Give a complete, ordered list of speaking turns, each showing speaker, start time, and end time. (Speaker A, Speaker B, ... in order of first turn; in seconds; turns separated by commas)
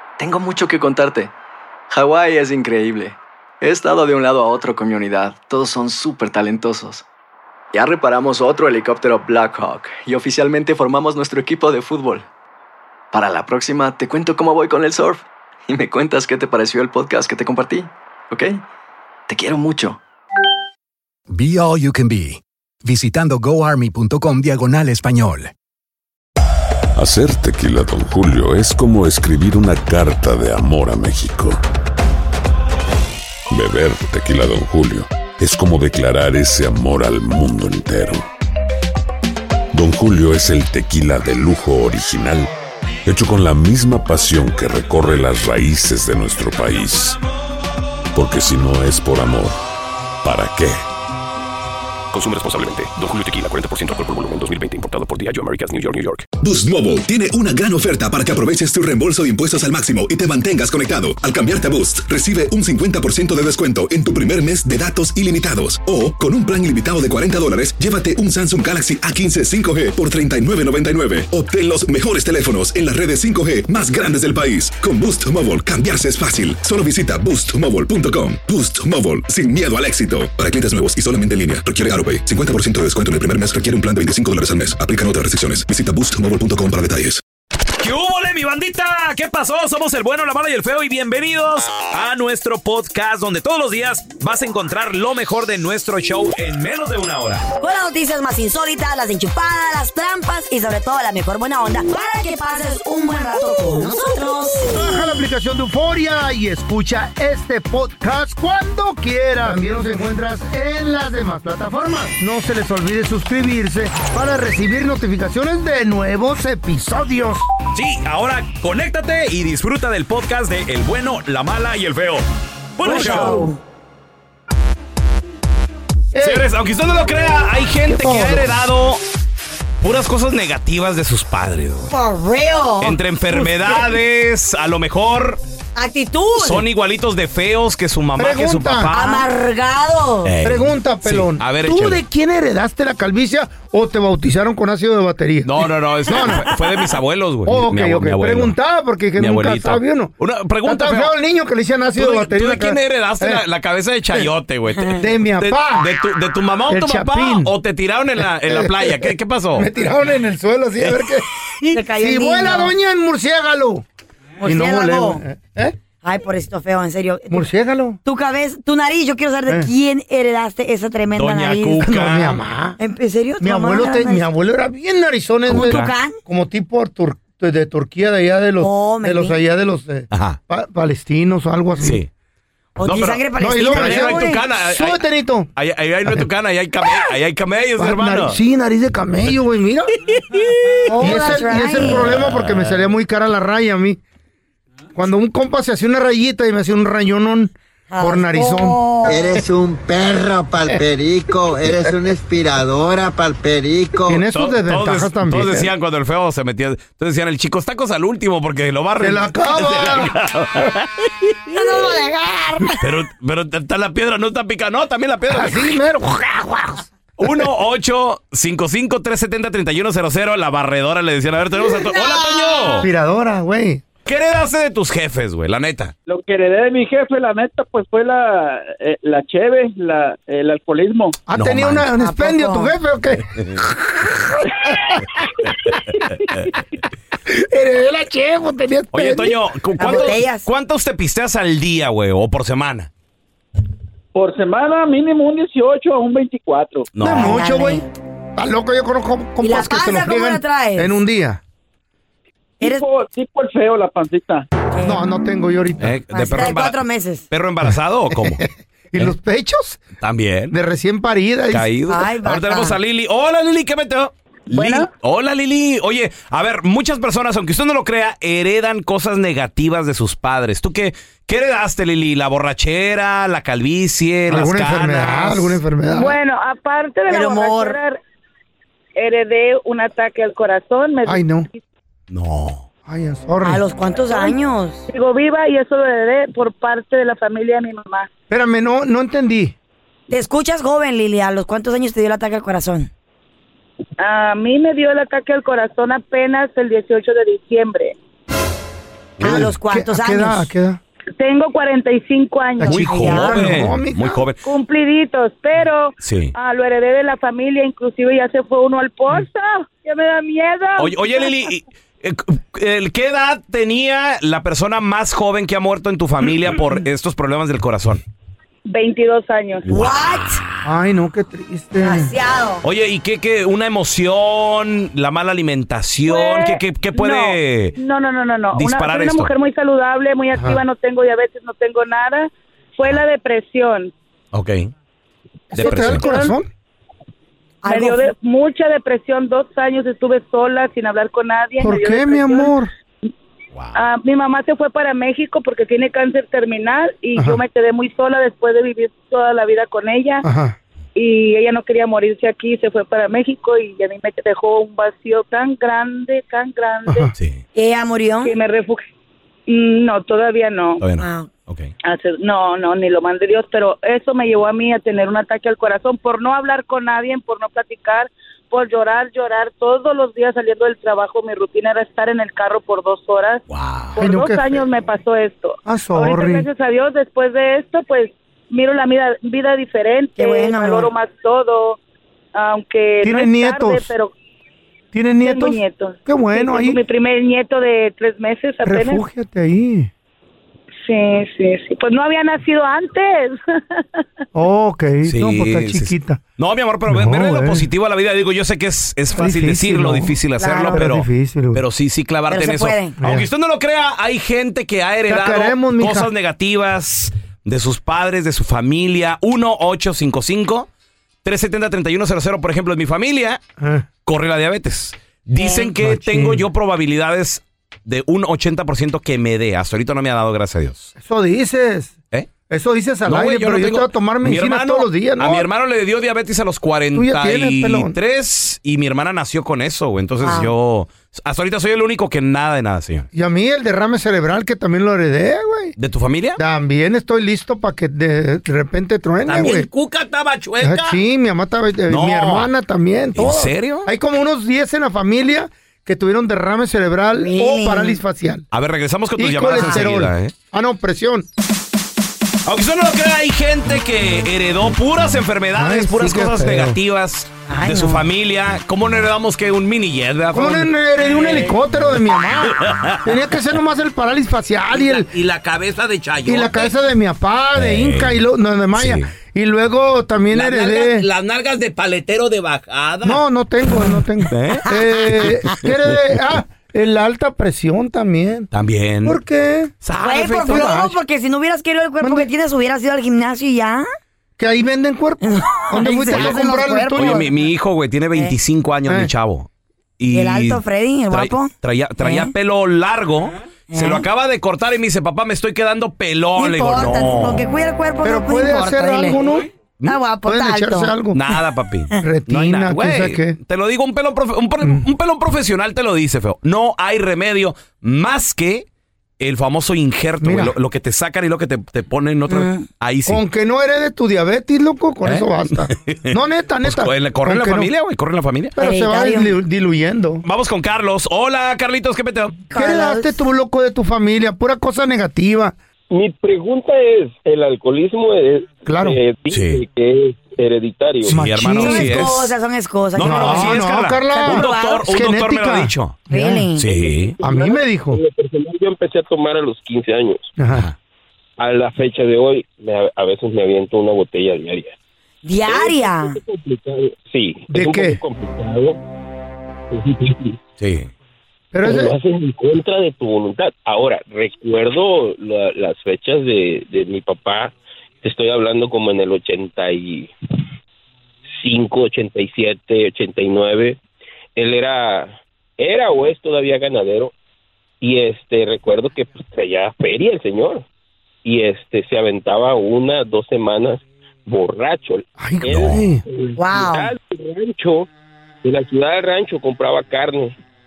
Speaker A: 0.2-1.3, Speaker A: 1.9-7.0, Speaker A: 7.7-12.3, Speaker A: 13.1-18.6, Speaker A: 19.3-20.0, Speaker B: 21.3-25.5, Speaker C: 26.9-31.6, Speaker C: 33.5-38.2, Speaker C: 39.7-42.5, Speaker C: 43.0-47.2, Speaker C: 48.1-49.6, Speaker C: 50.2-50.8, Speaker D: 52.1-56.3, Speaker E: 56.4-87.2, Speaker F: 87.8-97.5, Speaker G: 97.6-104.7, Speaker H: 104.6-117.5, Speaker F: 117.7-122.2, Speaker F: 122.8-123.4, Speaker G: 122.8-123.6, Speaker H: 123.0-123.3, Speaker H: 126.1-126.5, Speaker F: 126.2-129.0, Speaker H: 127.9-128.5, Speaker F: 129.8-131.9, Speaker G: 131.9-133.0, Speaker F: 132.8-135.4, Speaker G: 135.8-136.7, Speaker F: 136.4-139.3, Speaker H: 138.2-138.9, Speaker G: 138.9-140.3, Speaker F: 140.2-142.0, Speaker H: 140.4-146.4, Speaker F: 145.4-148.5, Speaker G: 146.2-146.6, Speaker H: 147.4-150.1, Speaker F: 149.2-151.1, Speaker H: 150.6-153.4, Speaker F: 151.9-159.7, Speaker H: 155.0-155.9, Speaker H: 156.7-157.5, Speaker H: 158.5-163.8, Speaker F: 160.8-161.1, Speaker G: 161.7-162.7, Speaker G: 164.4-165.2, Speaker H: 164.4-165.8, Speaker G: 166.0-167.4, Speaker H: 167.3-168.0, Speaker G: 168.0-171.8, Speaker F: 171.1-172.4, Speaker H: 171.8-172.8, Speaker G: 172.8-174.2, Speaker H: 173.4-182.0, Speaker F: 175.5-175.9, Speaker G: 175.5-176.2, Speaker G: 178.6-179.4, Speaker F: 180.1-180.4, Speaker F: 181.8-182.1, Speaker G: 182.8-184.4, Speaker F: 182.8-185.0, Speaker H: 183.4-185.5, Speaker F: 185.6-188.4, Speaker H: 187.8-189.9, Speaker F: 190.6-191.0, Speaker G: 190.9-192.0, Speaker H: 191.0-194.0, Speaker F: 191.8-192.8, Speaker H: 194.9-199.5, Speaker G: 197.9-199.2, Speaker I: 199.0-204.2, Speaker H: 204.1-205.7, Speaker F: 204.3-211.1, Speaker H: 209.0-210.1, Speaker G: 211.5-212.8, Speaker F: 212.8-215.8, Speaker H: 215.3-217.5, Speaker F: 217.2-222.9, Speaker G: 221.6-222.8, Speaker H: 222.8-223.8, Speaker F: 224.1-225.9, Speaker J: 226.1-231.2, Speaker H: 231.3-235.7, Speaker F: 231.3-231.9, Speaker G: 231.9-232.7, Speaker H: 237.3-240.1, Speaker F: 238.9-242.9, Speaker G: 239.8-240.4, Speaker J: 244.1-246.9, Speaker F: 246.9-247.4, Speaker H: 247.0-251.4, Speaker G: 247.1-247.8, Speaker G: 249.4-250.9, Speaker J: 252.6-254.5, Speaker G: 252.6-252.9, Speaker G: 254.7-255.0, Speaker H: 254.8-255.9, Speaker F: 255.8-258.4, Speaker G: 256.1-257.2, Speaker H: 258.3-259.8, Speaker F: 260.0-260.5, Speaker H: 260.5-261.6, Speaker F: 261.5-275.6, Speaker G: 261.9-262.8, Speaker H: 274.3-276.2, Speaker K: 275.9-278.0, Speaker G: 277.1-277.8, Speaker K: 278.9-281.6, Speaker H: 281.1-281.5, Speaker F: 282.1-282.6, Speaker H: 282.9-283.6, Speaker G: 283.4-284.9, Speaker K: 284.1-284.4, Speaker K: 284.9-288.1, Speaker H: 288.3-289.5, Speaker G: 290.1-292.9, Speaker K: 294.0-297.9, Speaker F: 299.2-299.5, Speaker H: 299.2-300.8, Speaker G: 299.2-300.5, Speaker K: 301.2-302.8, Speaker H: 302.6-304.2, Speaker F: 302.6-304.4, Speaker G: 302.9-303.5, Speaker K: 304.4-311.1, Speaker F: 306.0-306.3, Speaker F: 310.8-318.0, Speaker K: 318.7-319.7, Speaker F: 319.7-320.6, Speaker G: 319.7-320.4, Speaker H: 320.6-322.1, Speaker G: 321.8-322.6, Speaker F: 322.6-327.8, Speaker K: 326.1-333.9, Speaker F: 328.5-329.3, Speaker F: 334.3-334.7, Speaker H: 335.5-336.5, Speaker F: 335.5-336.3, Speaker K: 335.6-336.3, Speaker G: 337.6-338.0, Speaker K: 337.7-342.5, Speaker H: 341.6-342.7, Speaker K: 343.7-350.2, Speaker H: 347.1-347.4, Speaker H: 350.2-350.6, Speaker K: 350.9-357.1, Speaker H: 356.9-357.1, Speaker F: 357.1-357.4, Speaker G: 357.5-358.3, Speaker K: 358.2-358.8, Speaker K: 359.5-360.8, Speaker F: 360.8-361.7, Speaker G: 361.0-361.3, Speaker K: 361.8-373.4, Speaker F: 373.5-373.9, Speaker K: 373.9-381.8, Speaker H: 374.0-374.7, Speaker H: 375.6-376.4, Speaker G: 380.2-380.9, Speaker K: 382.3-384.1, Speaker H: 383.0-383.9, Speaker H: 384.9-386.8, Speaker K: 385.2-389.0, Speaker H: 388.6-389.9, Speaker K: 390.8-394.0, Speaker H: 394.3-396.2, Speaker F: 395.0-410.7, Speaker H: 396.9-397.6, Speaker H: 399.1-400.2, Speaker G: 400.4-400.8, Speaker H: 400.7-401.6, Speaker G: 402.3-402.9, Speaker H: 403.0-403.3, Speaker H: 405.1-406.1, Speaker F: 411.2-413.4, Speaker H: 413.6-413.9, Speaker F: 414.1-420.9, Speaker G: 415.4-415.7, Speaker H: 415.8-416.4, Speaker H: 421.0-421.9, Speaker H: 422.5-425.5, Speaker F: 423.1-433.1, Speaker H: 426.9-427.9, Speaker G: 430.2-430.5, Speaker H: 433.1-435.7, Speaker F: 435.8-436.4, Speaker H: 436.4-439.7, Speaker F: 439.2-441.0, Speaker H: 440.6-448.5, Speaker F: 441.9-442.5, Speaker F: 443.1-443.9, Speaker G: 447.2-448.0, Speaker F: 448.5-450.3, Speaker H: 449.2-451.2, Speaker F: 452.4-461.5, Speaker H: 455.6-456.8, Speaker G: 457.5-458.0, Speaker H: 460.3-465.1, Speaker F: 462.4-463.1, Speaker F: 464.7-466.7, Speaker H: 466.2-471.1, Speaker F: 467.6-468.2, Speaker F: 468.7-469.1, Speaker F: 470.3-473.2, Speaker H: 473.0-478.5, Speaker F: 474.3-474.7, Speaker G: 474.6-475.2, Speaker F: 478.5-479.2, Speaker H: 479.0-479.8, Speaker F: 479.8-480.8, Speaker G: 480.0-483.9, Speaker H: 480.4-480.9, Speaker H: 482.0-482.3, Speaker H: 484.4-487.3, Speaker G: 485.2-487.3, Speaker F: 486.1-486.4, Speaker F: 486.9-489.5, Speaker F: 490.0-497.4, Speaker G: 490.1-492.3, Speaker G: 493.7-494.0, Speaker G: 496.4-499.2, Speaker H: 498.0-499.5, Speaker G: 499.8-500.9, Speaker H: 500.2-501.2, Speaker F: 501.1-508.6, Speaker H: 502.0-503.4, Speaker F: 509.2-513.2, Speaker H: 510.2-510.5, Speaker G: 512.3-512.6, Speaker H: 513.1-517.7, Speaker F: 515.0-518.5, Speaker H: 518.5-520.2, Speaker G: 518.6-519.3, Speaker F: 520.2-522.4, Speaker G: 522.5-523.1, Speaker H: 522.5-525.5, Speaker L: 525.9-531.2, Speaker H: 528.6-529.0, Speaker F: 529.3-529.6, Speaker F: 531.1-532.3, Speaker H: 531.1-532.1, Speaker G: 531.6-533.6, Speaker F: 532.9-536.0, Speaker H: 533.0-536.5, Speaker G: 534.1-534.8, Speaker G: 536.1-536.7, Speaker F: 536.5-537.1, Speaker L: 536.6-540.3, Speaker H: 537.2-538.0, Speaker H: 540.4-540.7, Speaker L: 541.4-544.7, Speaker G: 545.2-546.2, Speaker L: 545.5-548.8, Speaker H: 547.5-548.0, Speaker L: 549.7-550.4, Speaker F: 550.6-550.9, Speaker H: 551.5-551.9, Speaker L: 551.6-560.1, Speaker L: 561.4-563.8, Speaker L: 564.4-567.1, Speaker L: 567.8-570.6, Speaker L: 571.2-577.9, Speaker H: 575.2-576.0, Speaker G: 576.4-576.9, Speaker L: 578.4-580.3